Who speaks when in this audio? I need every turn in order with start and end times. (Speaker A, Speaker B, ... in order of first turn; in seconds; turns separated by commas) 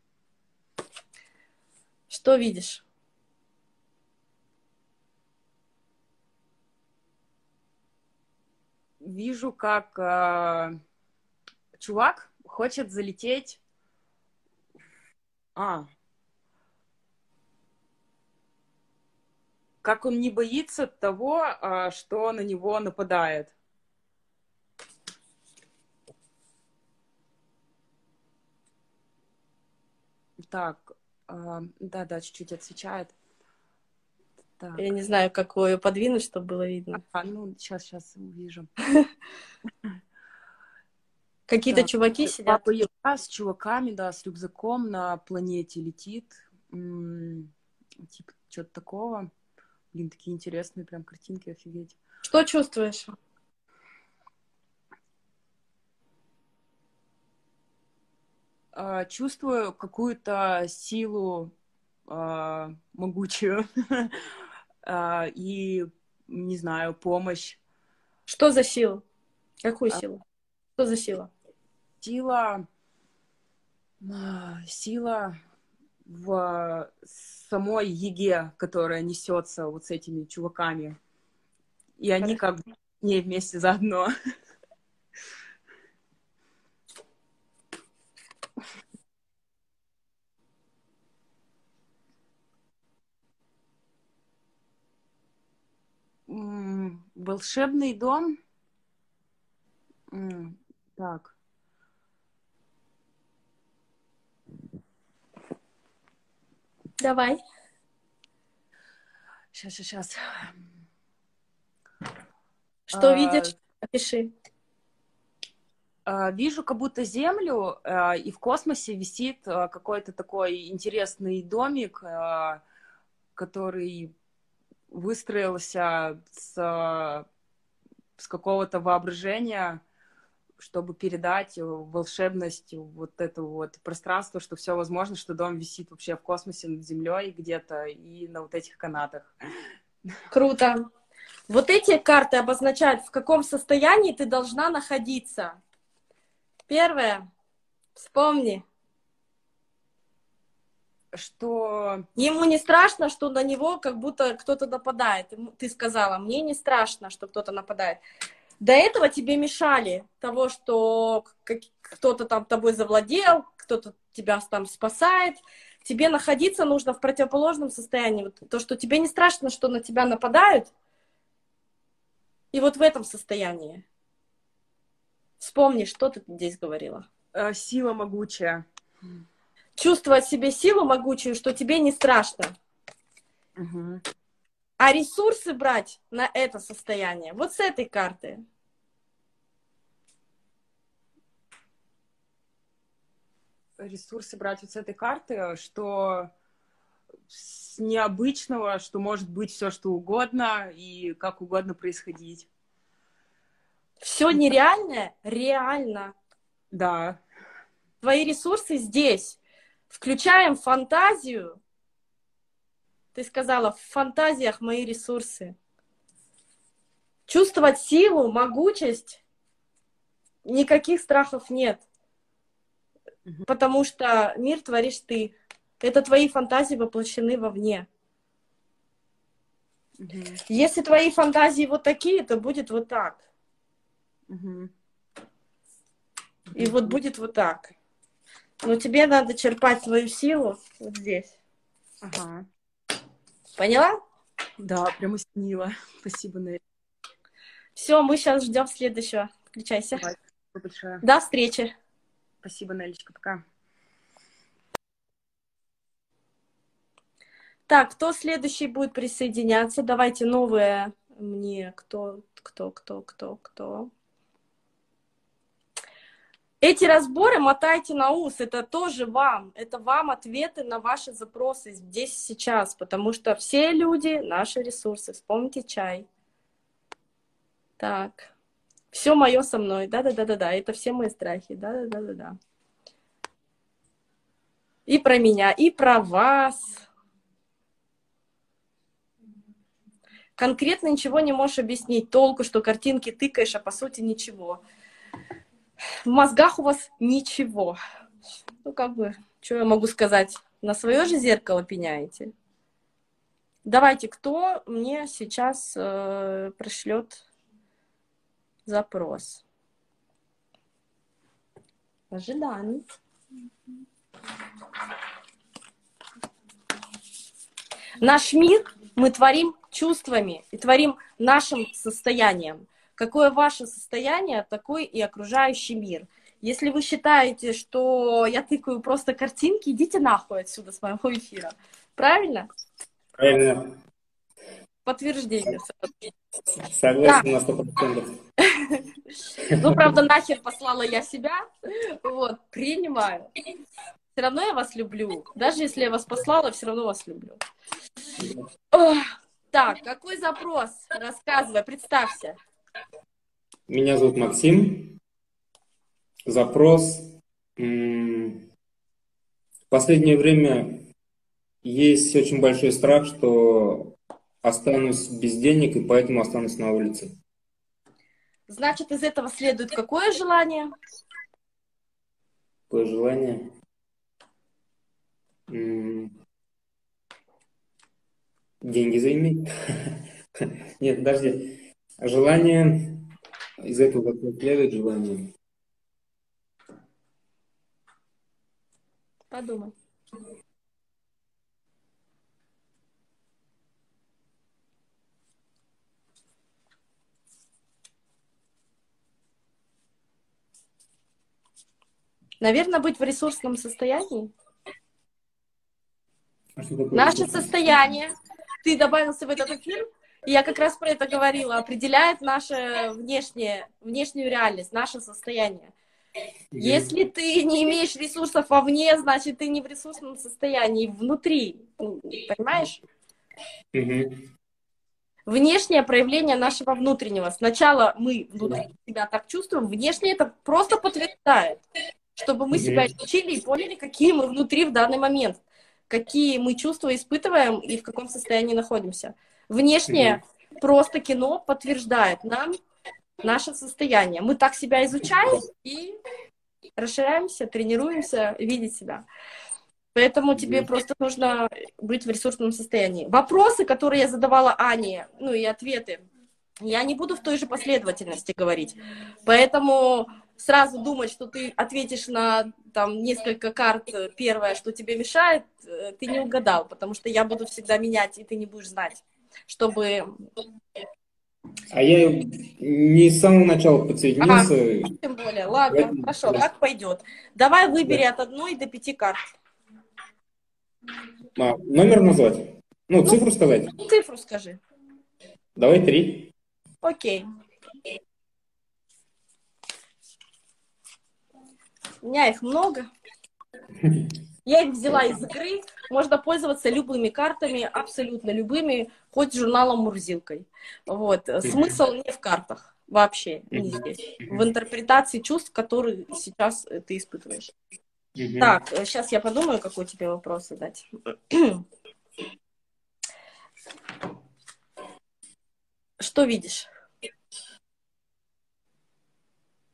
Speaker A: 2.1-2.8, Speaker B: 9.0-10.8, Speaker B: 11.8-13.6, Speaker B: 15.6-15.9, Speaker B: 19.8-23.5, Speaker B: 30.4-33.1, Speaker B: 34.6-34.8, Speaker A: 34.8-37.0, Speaker B: 37.0-38.7, Speaker A: 41.5-42.7, Speaker B: 41.7-47.5, Speaker B: 48.0-49.3, Speaker B: 49.9-52.0, Speaker A: 52.2-53.1, Speaker B: 58.7-61.5, Speaker B: 62.1-64.2, Speaker B: 64.8-67.6, Speaker A: 68.3-69.0, Speaker A: 69.6-70.2, Speaker A: 70.8-71.3, Speaker B: 72.0-72.6, Speaker B: 74.0-75.4, Speaker B: 76.0-81.0, Speaker B: 82.0-84.1, Speaker B: 96.3-98.4, Speaker B: 100.1-101.3, Speaker A: 107.0-107.4, Speaker B: 109.5-110.6, Speaker A: 112.9-114.3, Speaker B: 112.9-113.5, Speaker B: 116.0-122.6, Speaker B: 123.3-124.1, Speaker B: 124.9-127.2, Speaker B: 128.2-129.8, Speaker B: 130.6-139.3, Speaker A: 140.3-140.8, Speaker A: 141.5-145.6, Speaker A: 146.7-147.2, Speaker A: 147.9-148.6, Speaker B: 151.1-152.1, Speaker A: 152.2-158.0, Speaker A: 158.6-170.7, Speaker A: 172.5-173.8, Speaker A: 175.4-177.1, Speaker B: 177.3-179.2, Speaker A: 179.8-182.5, Speaker B: 183.6-184.0, Speaker A: 184.8-188.4, Speaker B: 193.8-196.3, Speaker B: 197.3-202.5, Speaker A: 204.0-206.1, Speaker B: 206.7-207.2, Speaker A: 208.0-209.4, Speaker A: 209.9-211.6, Speaker A: 213.1-215.6, Speaker A: 217.3-219.2, Speaker A: 220.4-221.8, Speaker A: 223.5-227.9, Speaker B: 230.0-230.4, Speaker A: 230.5-233.2, Speaker B: 234.3-234.7, Speaker B: 236.5-237.0, Speaker A: 236.6-237.7, Speaker A: 238.6-241.3, Speaker B: 242.0-242.5, Speaker A: 243.6-243.9, Speaker B: 244.6-246.6, Speaker A: 247.8-250.0, Speaker B: 249.9-251.0, Speaker A: 251.0-251.7, Speaker B: 252.4-253.4, Speaker A: 257.7-263.9, Speaker A: 266.6-276.1, Speaker A: 277.8-278.3, Speaker A: 278.9-282.4, Speaker A: 284.9-286.8, Speaker A: 290.4-294.6, Speaker A: 296.0-297.8, Speaker A: 298.6-302.3, Speaker A: 303.6-307.2, Speaker A: 308.6-309.4, Speaker A: 312.1-312.8, Speaker A: 318.0-332.5, Speaker C: 333.2-333.8, Speaker A: 334.9-335.9, Speaker C: 336.6-338.1, Speaker A: 339.6-343.3, Speaker A: 344.1-347.4, Speaker A: 348.7-352.4, Speaker C: 353.7-355.0, Speaker C: 356.3-358.4, Speaker C: 359.7-360.9, Speaker C: 361.6-367.1, Speaker A: 368.5-370.7, Speaker C: 372.7-373.5, Speaker C: 375.5-376.1, Speaker C: 378.6-383.1, Speaker C: 383.6-385.3, Speaker A: 389.3-389.7, Speaker A: 402.4-404.3, Speaker C: 406.6-407.5, Speaker A: 406.9-415.7, Speaker C: 416.5-416.9, Speaker A: 416.6-422.8, Speaker C: 423.7-424.2, Speaker A: 425.3-431.6, Speaker A: 432.1-442.5, Speaker C: 432.5-432.9, Speaker C: 439.9-440.2, Speaker A: 443.2-445.9, Speaker A: 446.8-449.1, Speaker A: 449.9-456.0, Speaker C: 450.4-450.7, Speaker A: 456.6-470.1, Speaker C: 471.7-474.9, Speaker A: 474.2-479.2, Speaker C: 475.7-476.4, Speaker C: 481.4-483.8, Speaker A: 483.7-484.6, Speaker C: 485.6-486.3, Speaker A: 486.8-487.2, Speaker A: 492.0-492.9, Speaker C: 493.8-494.1, Speaker A: 494.4-507.5, Speaker C: 501.4-501.7, Speaker C: 503.5-504.4, Speaker C: 508.2-508.6, Speaker A: 508.4-511.6, Speaker A: 516.0-516.7